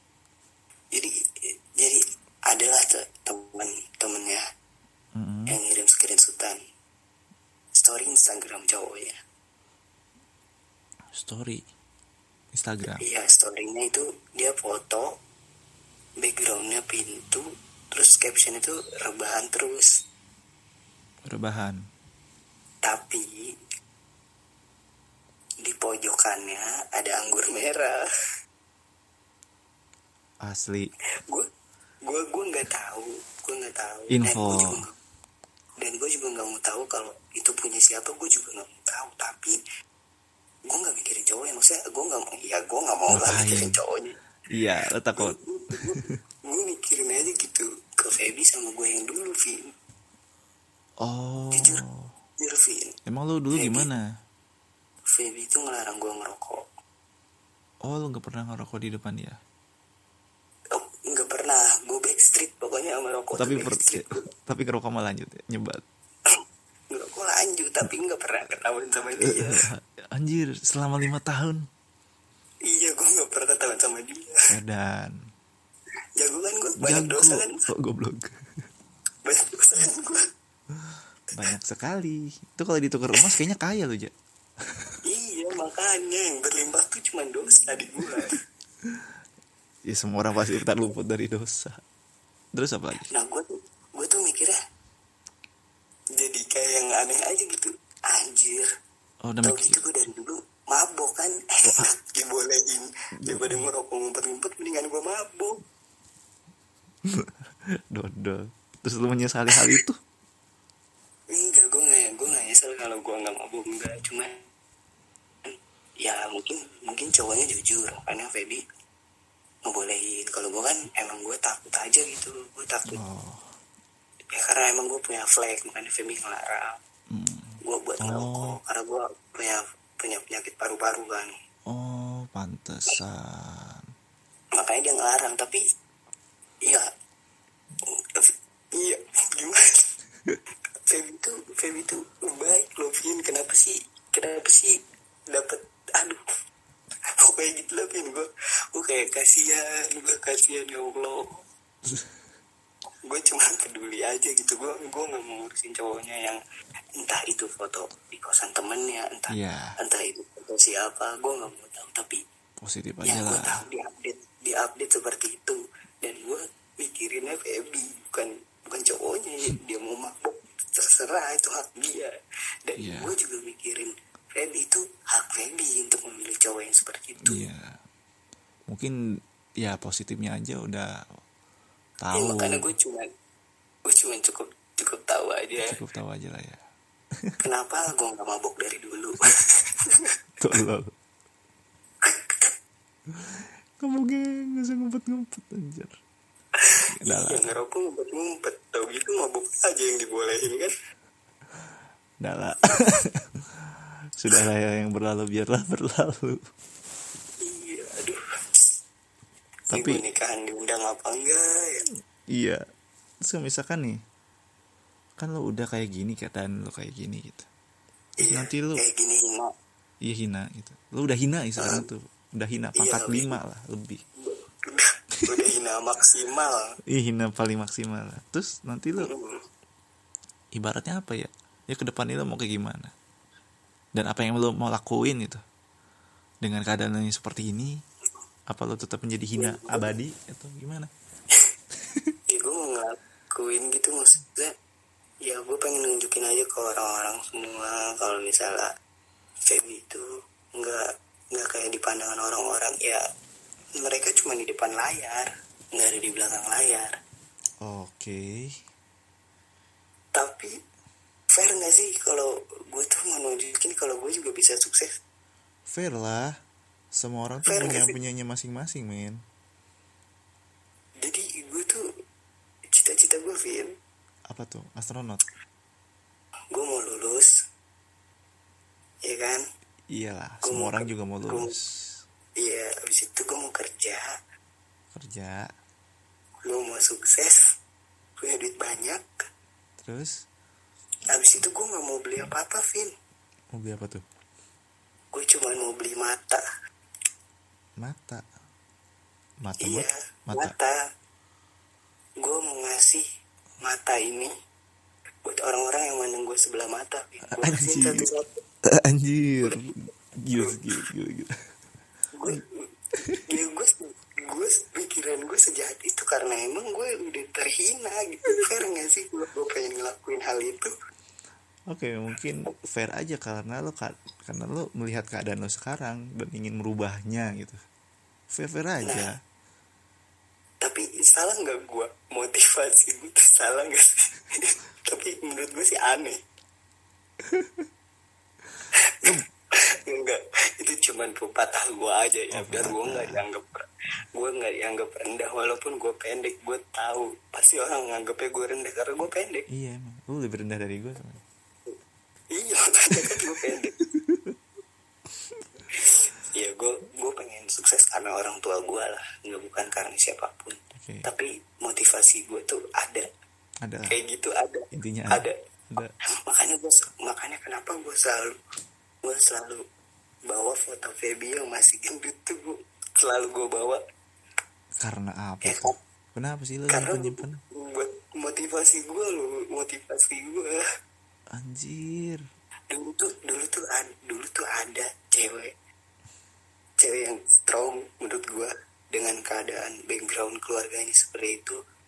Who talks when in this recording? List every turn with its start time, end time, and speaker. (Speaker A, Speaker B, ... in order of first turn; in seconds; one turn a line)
Speaker A: 0.9-4.4
Speaker B: 5.1-5.6
Speaker A: 5.5-6.6
Speaker A: 7.8-9.2
Speaker B: 11.1-11.6
Speaker B: 12.5-13.0
Speaker A: 13.0-15.1
Speaker A: 16.2-19.9
Speaker B: 21.2-21.8
Speaker A: 22.8-23.5
Speaker A: 25.6-28.0
Speaker B: 30.4-30.9
Speaker A: 32.0-34.9
Speaker B: 34.1-34.8
Speaker A: 35.8-39.6
Speaker A: 40.7-44.1
Speaker B: 43.1-43.8
Speaker B: 44.5-46.2
Speaker A: 45.1-49.7
Speaker B: 51.0-52.1
Speaker A: 51.5-51.8
Speaker A: 52.4-53.0
Speaker B: 53.0-54.0
Speaker A: 53.5-53.9
Speaker A: 55.1-56.6
Speaker B: 57.8-59.4
Speaker A: 60.7-64.2
Speaker B: 63.3-65.8
Speaker A: 66.9-69.7
Speaker B: 69.2-71.6
Speaker A: 72.6-74.4
Speaker B: 74.5-75.2
Speaker A: 76.2-77.6
Speaker B: 76.8-78.4
Speaker A: 79.2-80.2
Speaker B: 80.7-84.1
Speaker B: 84.6-85.0
Speaker A: 85.0-88.4
Speaker B: 89.8-91.8
Speaker B: 92.5-93.1
Speaker A: 93.1-94.6
Speaker A: 96.2-98.7
Speaker B: 99.2-99.8
Speaker A: 99.4-105.6
Speaker B: 103.2-103.7
Speaker B: 107.0-110.0
Speaker A: 111.3-114.5
Speaker A: 115.4-118.6
Speaker A: 119.7-123.0
Speaker B: 122.9-123.5
Speaker A: 124.3-126.8
Speaker B: 127.1-128.6
Speaker A: 127.6-131.3
Speaker B: 131.7-133.9
Speaker A: 134.6-135.6
Speaker A: 137.8-139.8
Speaker A: 140.8-146.2
Speaker A: 147.2-151.4
Speaker B: 151.8-152.1
Speaker A: 153.1-156.4
Speaker A: 157.0-162.2
Speaker B: 159.3-159.8
Speaker B: 162.6-163.6
Speaker A: 163.0-172.1
Speaker A: 172.6-177.5
Speaker B: 172.8-173.1
Speaker B: 177.2-177.8
Speaker B: 178.7-178.9
Speaker B: 179.6-180.9
Speaker B: 182.0-182.7
Speaker A: 182.1-183.1
Speaker A: 183.8-185.8
Speaker B: 185.6-186.6
Speaker A: 187.4-190.1
Speaker B: 190.4-190.9
Speaker A: 192.0-192.5
Speaker B: 193.1-195.9
Speaker A: 196.6-200.7
Speaker B: 196.9-197.5
Speaker B: 202.2-206.4
Speaker A: 207.4-208.2
Speaker B: 209.7-210.0
Speaker A: 209.7-211.8
Speaker B: 212.3-212.6
Speaker B: 213.2-214.0
Speaker B: 215.2-217.5
Speaker A: 218.2-219.5
Speaker B: 218.2-218.8
Speaker B: 220.0-224.0
Speaker A: 221.6-221.9
Speaker A: 222.8-223.4
Speaker A: 224.2-226.7
Speaker B: 226.9-229.1
Speaker A: 229.0-229.4
Speaker B: 230.5-232.9
Speaker B: 233.9-235.4
Speaker B: 236.4-237.8
Speaker B: 238.5-240.9
Speaker A: 239.3-239.9
Speaker B: 241.8-242.1
Speaker A: 242.3-244.5
Speaker A: 245.2-248.7
Speaker A: 249.4-253.0
Speaker A: 253.8-257.0
Speaker B: 257.6-258.6
Speaker A: 260.1-260.5
Speaker A: 261.3-264.9
Speaker B: 265.7-266.3
Speaker B: 266.9-269.2
Speaker A: 267.4-267.9
Speaker A: 271.0-271.8
Speaker A: 272.7-273.7
Speaker B: 274.3-275.2
Speaker A: 276.5-277.3
Speaker A: 279.0-279.4
Speaker B: 279.9-282.0
Speaker A: 280.4-281.5
Speaker A: 282.4-284.1
Speaker B: 284.9-285.5
Speaker A: 286.4-287.4
Speaker A: 288.2-289.2
Speaker B: 289.8-290.2
Speaker A: 291.1-292.9
Speaker B: 293.5-294.0
Speaker A: 295.1-296.4
Speaker B: 297.8-298.2
Speaker B: 299.4-300.5
Speaker A: 299.6-300.8
Speaker A: 302.2-303.0
Speaker A: 303.6-304.3
Speaker A: 305.2-308.3
Speaker B: 307.3-308.1
Speaker B: 308.6-311.3
Speaker A: 312.1-312.7
Speaker A: 313.2-320.7
Speaker B: 321.7-327.6
Speaker B: 328.3-329.2
Speaker A: 328.8-329.1
Speaker A: 330.6-336.2
Speaker B: 337.2-337.6
Speaker A: 338.7-349.5
Speaker B: 342.3-343.2
Speaker B: 349.5-351.2
Speaker A: 352.3-353.8
Speaker B: 353.8-354.4
Speaker A: 355.8-363.1
Speaker B: 360.7-361.1
Speaker B: 363.6-364.0
Speaker A: 363.9-365.3
Speaker B: 364.7-365.9
Speaker A: 366.2-368.4
Speaker A: 369.0-369.6
Speaker A: 370.3-373.8
Speaker B: 374.8-377.4
Speaker A: 375.4-375.8
Speaker A: 376.7-380.6
Speaker B: 381.3-382.2
Speaker A: 382.7-385.5
Speaker A: 386.8-391.6